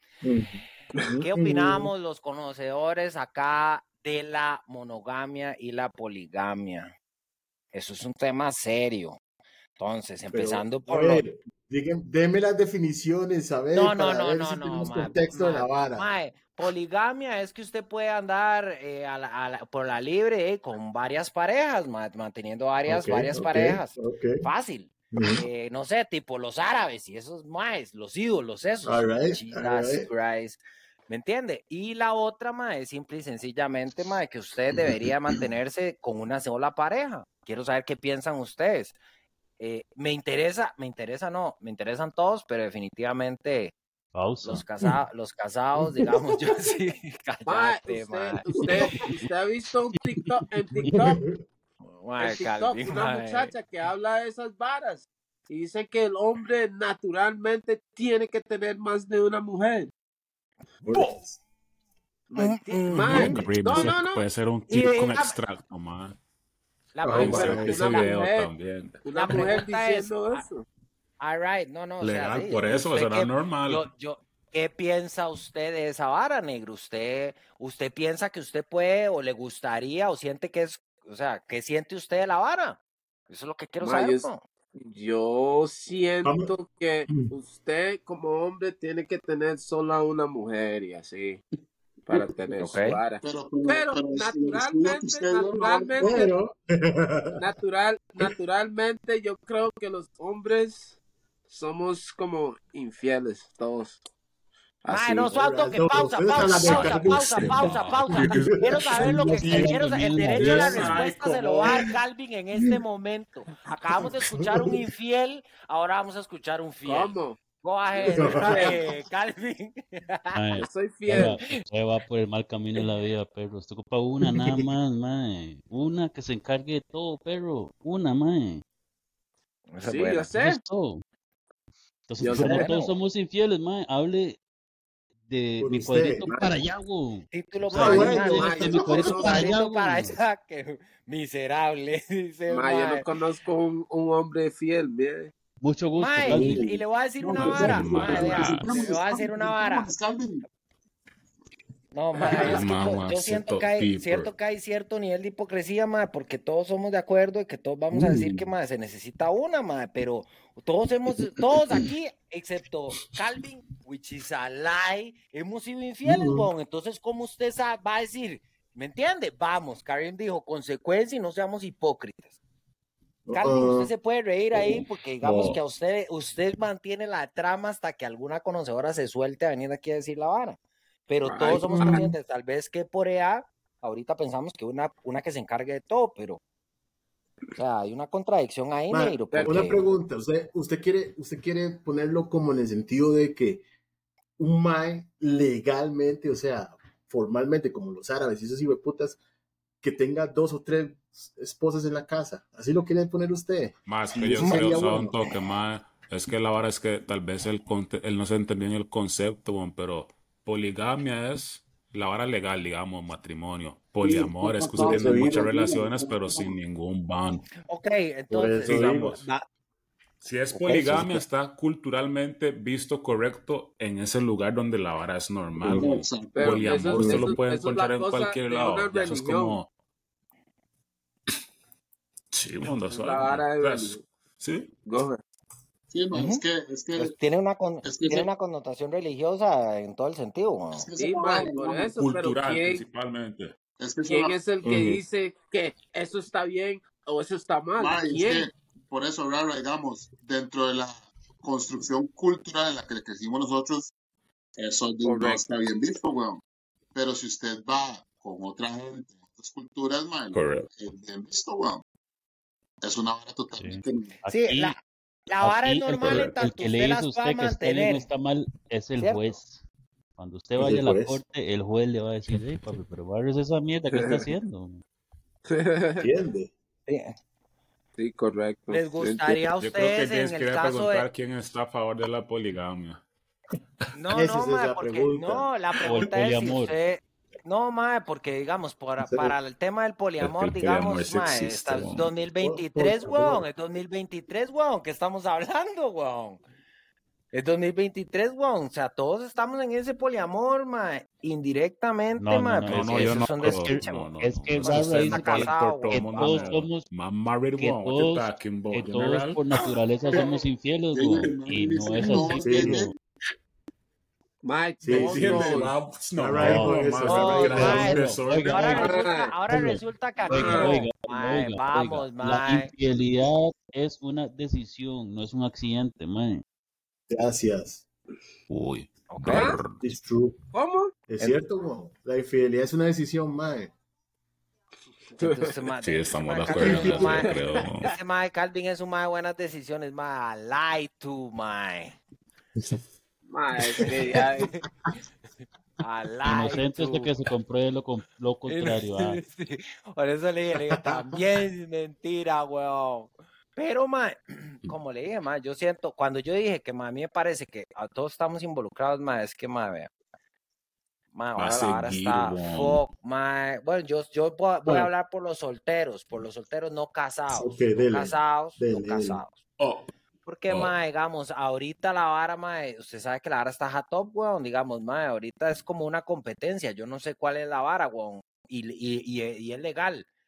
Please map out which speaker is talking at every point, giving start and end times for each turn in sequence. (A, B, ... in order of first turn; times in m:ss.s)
0:00.2-0:01.9 A
0:01.2-0:06.9 B
0:07.7-0:09.2 B
0:09.8-0:11.2 B
0:10.3-0:16.1 A
0:13.7-0:39.0 B
0:22.9-0:24.5 A
0:25.1-0:25.4 A
0:28.8-0:30.1 A
0:39.6-0:43.7 B
0:44.1-0:44.6 C
0:44.4-0:48.9 B
0:47.5-0:51.2 D
0:48.6-0:48.9 A
0:50.7-0:51.4 A
0:51.8-0:53.5 B
0:52.2-0:59.9 D
1:00.8-1:01.3 A
1:02.3-1:04.2 D
1:02.4-1:03.9 B
1:03.1-1:06.2 E
1:03.1-1:03.4 A
1:04.7-1:05.4 B
1:06.9-1:08.1 B
1:07.0-1:07.7 A
1:07.1-1:09.4 E
1:07.1-1:08.5 D
1:09.0-1:10.6 D
1:09.1-1:10.4 B
1:11.2-1:24.4 B
1:12.0-1:13.9 E
1:23.8-1:31.4 D
1:26.2-1:26.5 A
1:32.1-1:36.3 D
1:32.1-1:32.8 A
1:32.6-1:33.0 B
1:33.2-1:36.3 F
1:36.0-1:37.4 A
1:37.4-1:44.0 D
1:44.8-1:45.3 D
1:44.9-2:00.4 B
1:45.3-1:49.7 A
1:46.4-1:49.7 E
1:49.0-1:51.1 C
1:50.3-1:51.9 E
1:54.0-1:54.8 A
1:56.8-1:57.4 D
1:57.9-1:58.8 D
1:58.1-1:58.8 A
2:00.3-2:08.6 C
2:00.6-2:01.4 D
2:01.1-2:01.6 B
2:04.2-2:04.6 A
2:09.7-2:10.3 B
2:09.8-2:10.6 D
2:10.4-2:11.0 C
2:12.1-2:14.4 C
2:12.2-2:12.8 D
2:12.3-2:12.9 B
2:15.3-2:20.2 C
2:15.6-2:16.4 A
2:16.3-2:16.6 D
2:17.3-2:23.0 B
2:17.8-2:19.5 A
2:17.9-2:19.3 D
2:22.5-2:25.3 D
2:25.6-2:26.7 C
2:26.0-2:29.9 B
2:26.3-2:26.8 A
2:27.2-2:30.4 F
2:27.4-2:28.0 C
2:27.6-2:28.7 E
2:31.9-2:52.3 B
2:32.3-2:34.3 E
2:38.0-2:38.4 E
2:46.0-2:46.5 A
2:53.2-2:53.9 A
2:53.3-3:00.6 B
2:54.7-2:55.6 E
3:01.1-3:06.4 B
3:01.2-3:02.0 D
3:01.5-3:02.1 A
3:07.6-3:09.9 B
3:08.9-3:13.6 A
3:09.3-3:09.8 D
3:14.4-3:19.2 A
3:19.8-3:25.2 A
3:23.9-3:37.5 E
3:24.3-3:25.4 B
3:34.0-3:36.6 F
3:34.7-3:35.7 A
3:37.6-3:39.4 B
3:38.3-3:39.2 A
3:38.6-3:39.2 E
3:40.2-3:49.7 E
3:40.5-3:41.2 B
3:40.6-3:41.2 A
3:45.6-3:45.9 A
3:45.7-3:46.9 F
3:46.3-3:49.6 D
3:46.8-3:47.4 A
3:52.3-3:54.7 E
3:52.9-3:54.0 D
3:54.8-3:55.2 D
3:55.9-3:57.1 F
3:56.1-3:56.4 B
3:57.0-4:00.9 B
3:57.8-3:58.3 F
4:00.7-4:01.9 F
4:01.0-4:02.8 D
4:02.0-4:03.6 E
4:03.8-4:04.4 F
4:04.0-4:08.5 D
4:04.6-4:05.0 A
4:07.8-4:13.9 F
4:14.6-4:16.4 F
4:15.0-4:15.4 D
4:16.9-4:21.8 F
4:20.3-4:20.7 E
4:22.8-4:24.1 F
4:23.6-4:24.8 C
4:24.3-4:24.8 B
4:25.3-4:28.1 B
4:25.4-4:29.6 C
4:26.0-4:26.4 E
4:29.0-4:29.4 B
4:30.2-4:34.8 C
4:30.6-4:31.2 A
4:33.9-4:34.2 D
4:35.5-4:36.1 D
4:36.0-4:36.5 A
4:36.9-4:37.1 B
4:38.0-4:39.4 D
4:38.7-4:41.0 B
4:39.6-4:43.0 E
4:43.9-4:56.4 B
4:44.1-4:46.1 A
4:45.9-4:46.8 C
4:49.0-4:49.3 A
4:50.2-4:52.1 E
4:52.4-4:53.5 A
4:57.3-5:04.0 B
5:02.2-5:06.9 C
5:02.6-5:09.4 E
5:04.6-5:06.5 B
5:07.6-5:12.9 C
5:10.1-5:10.4 F
5:10.9-5:12.9 F
5:12.4-5:12.8 A
5:14.4-5:15.7 D
5:14.8-5:18.0 A
5:14.9-5:18.9 E
5:16.4-5:16.7 C
5:17.0-5:22.7 B
5:17.5-5:19.0 C
5:18.7-5:19.3 D
5:19.5-5:26.4 C
5:20.3-5:20.7 D
5:27.1-5:27.8 A
5:28.5-5:29.8 E
5:29.1-5:29.5 B
5:29.3-5:29.6 D
5:29.8-5:30.4 A
5:30.5-5:30.9 D
5:31.1-5:33.7 A
5:35.2-5:42.0 B
5:35.8-5:37.9 E
5:36.5-5:37.3 A
5:37.0-5:37.4 D
5:43.3-5:44.5 D
5:43.8-5:44.2 A
5:45.8-5:47.1 B
5:46.2-5:49.2 C
5:48.5-5:59.9 B
5:50.6-5:51.2 A
6:01.1-6:09.4 B
6:01.4-6:02.8 E
6:04.6-6:04.9 A
6:07.3-6:09.2 A
6:09.6-6:09.9 E
6:10.2-6:20.0 B